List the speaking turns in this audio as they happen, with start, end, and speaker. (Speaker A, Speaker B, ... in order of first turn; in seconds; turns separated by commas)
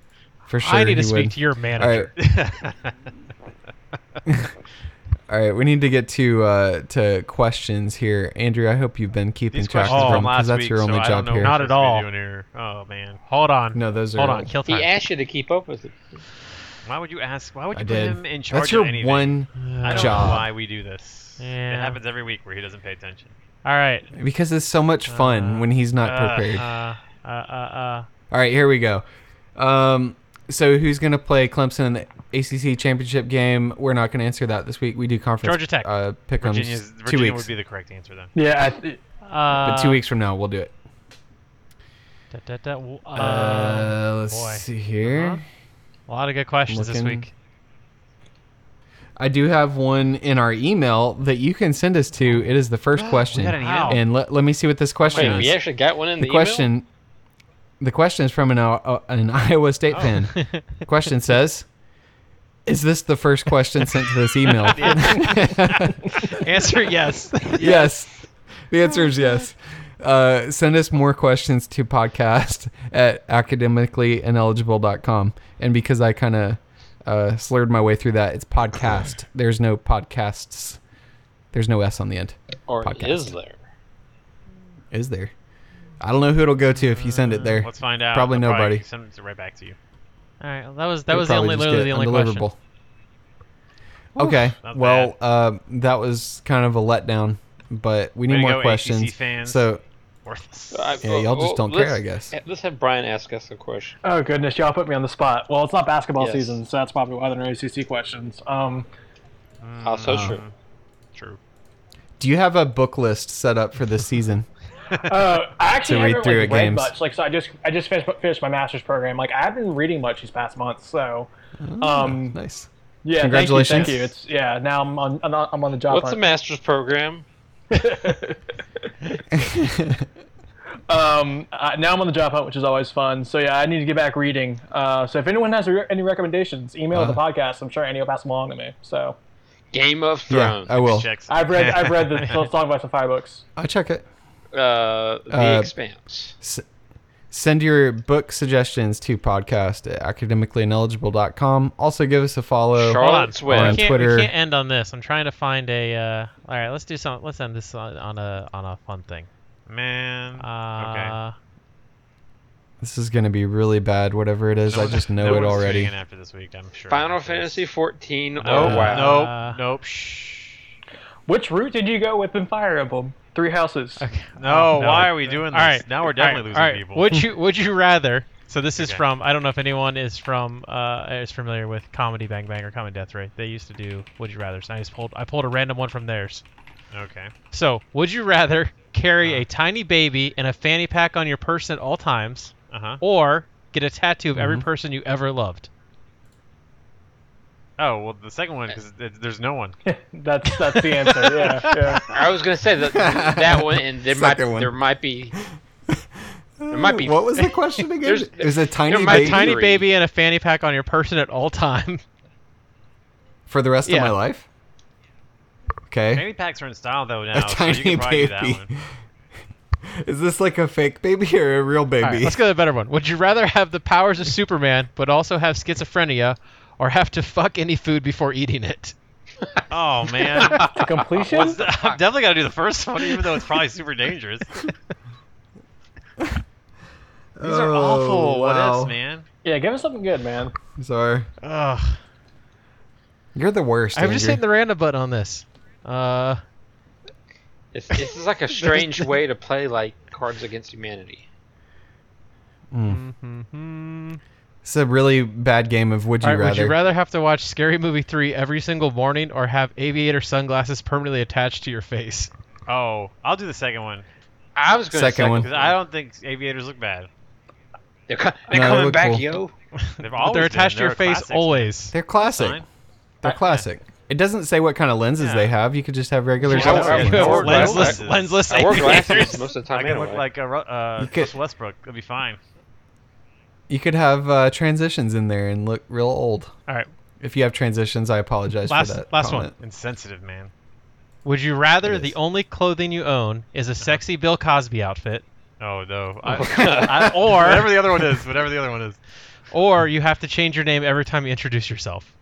Speaker A: 0.5-2.1, Speaker B: 0.6-2.1, Speaker C: 2.2-3.1, Speaker A: 4.3-4.5, Speaker A: 5.3-11.6, Speaker C: 9.5-13.2, Speaker B: 9.9-10.3, Speaker B: 11.4-12.1, Speaker B: 13.3-14.9, Speaker A: 13.7-14.5, Speaker D: 14.7-16.2, Speaker C: 16.8-23.3, Speaker A: 17.7-20.5, Speaker B: 19.6-20.4, Speaker B: 21.4-22.0, Speaker B: 23.6-24.1, Speaker A: 24.1-26.7, Speaker B: 25.1-28.1, Speaker A: 28.3-29.0, Speaker A: 29.6-37.5, Speaker B: 35.4-35.9, Speaker C: 36.4-38.3, Speaker E: 38.4-39.0, Speaker B: 39.2-40.0, Speaker A: 39.6-40.7, Speaker B: 42.3-45.4, Speaker A: 43.1-45.4, Speaker B: 46.1-47.3, Speaker A: 46.7-47.3, Speaker A: 49.2-55.6, Speaker C: 53.0-54.0, Speaker B: 53.4-54.0, Speaker D: 55.1-56.7, Speaker C: 55.1-55.5, Speaker A: 56.2-56.9, Speaker A: 57.8-61.7, Speaker B: 60.3-60.6, Speaker A: 62.7-66.4, Speaker C: 64.6-65.4, Speaker B: 64.7-67.9, Speaker C: 67.5-67.9, Speaker A: 67.6-80.8, Speaker A: 81.5-83.3, Speaker D: 82.7-83.6, Speaker A: 84.9-85.3, Speaker A: 86.0-88.8, Speaker C: 86.7-89.8, Speaker B: 90.4-92.5, Speaker A: 91.1-92.6, Speaker A: 94.1-99.8, Speaker C: 94.2-95.1, Speaker C: 98.3-99.7, Speaker C: 100.2-101.0, Speaker D: 100.7-104.0, Speaker A: 101.0-102.3, Speaker E: 104.0-108.9, Speaker D: 106.2-106.6, Speaker C: 109.6-110.5, Speaker D: 109.8-110.4, Speaker A: 110.1-110.4, Speaker C: 111.1-111.4, Speaker A: 112.2-114.5, Speaker E: 115.0-122.4, Speaker A: 115.8-116.9, Speaker A: 121.6-124.1, Speaker E: 123.0-126.3, Speaker D: 125.9-127.2, Speaker E: 127.7-128.4, Speaker A: 129.3-130.1, Speaker E: 130.9-139.2, Speaker A: 136.9-137.2, Speaker D: 139.7-140.8, Speaker A: 140.3-141.1, Speaker C: 140.7-142.5, Speaker E: 141.3-143.4, Speaker A: 143.6-144.1, Speaker D: 144.5-146.3, Speaker A: 145.3-145.7, Speaker A: 147.3-154.3, Speaker D: 152.7-153.9, Speaker B: 153.0-159.3, Speaker C: 159.7-161.2, Speaker B: 160.4-161.3, Speaker A: 162.8-165.9, Speaker C: 164.7-167.6, Speaker D: 166.8-169.3, Speaker C: 168.4-170.7, Speaker B: 168.4-169.6, Speaker E: 171.3-174.0, Speaker B: 174.0-186.4, Speaker C: 174.4-177.1, Speaker C: 178.8-179.1, Speaker C: 186.9-187.3, Speaker B: 187.5-195.7, Speaker C: 189.2-189.5, Speaker C: 192.7-193.0, Speaker A: 194.3-194.7, Speaker C: 197.8-199.8, Speaker E: 199.8-202.0, Speaker B: 200.7-202.0, Speaker D: 202.1-205.3, Speaker A: 202.9-204.7, Speaker A: 205.3-206.0, Speaker A: 206.6-209.6, Speaker D: 206.7-207.5, Speaker D: 208.0-209.9, Speaker B: 209.0-212.0, Speaker A: 213.5-214.5, Speaker B: 213.9-214.1, Speaker A: 215.9-216.3, Speaker C: 216.1-218.7, Speaker A: 217.3-218.9, Speaker A: 219.9-222.5, Speaker B: 222.0-228.9, Speaker C: 229.7-234.6, Speaker B: 230.3-232.0, Speaker E: 230.4-231.6, Speaker A: 237.3-238.9, Speaker C: 237.4-239.3, Speaker E: 239.4-240.5, Speaker A: 240.8-241.3, Speaker B: 241.4-242.0, Speaker A: 243.3-244.4, Speaker B: 243.9-246.4, Speaker D: 247.7-251.3, Speaker B: 248.0-249.1, Speaker A: 252.7-253.0, Speaker B: 252.9-254.2, Speaker A: 254.6-256.8, Speaker B: 256.2-262.3, Speaker C: 262.7-264.1, Speaker D: 264.6-265.8, Speaker A: 264.9-265.5, Speaker C: 265.3-267.1, Speaker D: 268.1-269.5, Speaker A: 268.5-269.3, Speaker C: 270.0-272.6, Speaker B: 270.0-271.9, Speaker A: 271.9-272.6, Speaker A: 273.2-277.7, Speaker C: 273.3-273.7, Speaker C: 275.2-275.5, Speaker B: 276.4-279.5, Speaker C: 276.5-282.4, Speaker D: 276.5-280.3, Speaker A: 281.0-281.3, Speaker A: 283.7-286.5, Speaker A: 287.2-289.5, Speaker B: 288.7-289.5, Speaker C: 289.6-290.5, Speaker B: 291.2-295.2, Speaker A: 291.8-292.1, Speaker C: 295.6-299.0, Speaker D: 296.3-297.1, Speaker B: 296.6-297.7, Speaker B: 299.5-302.1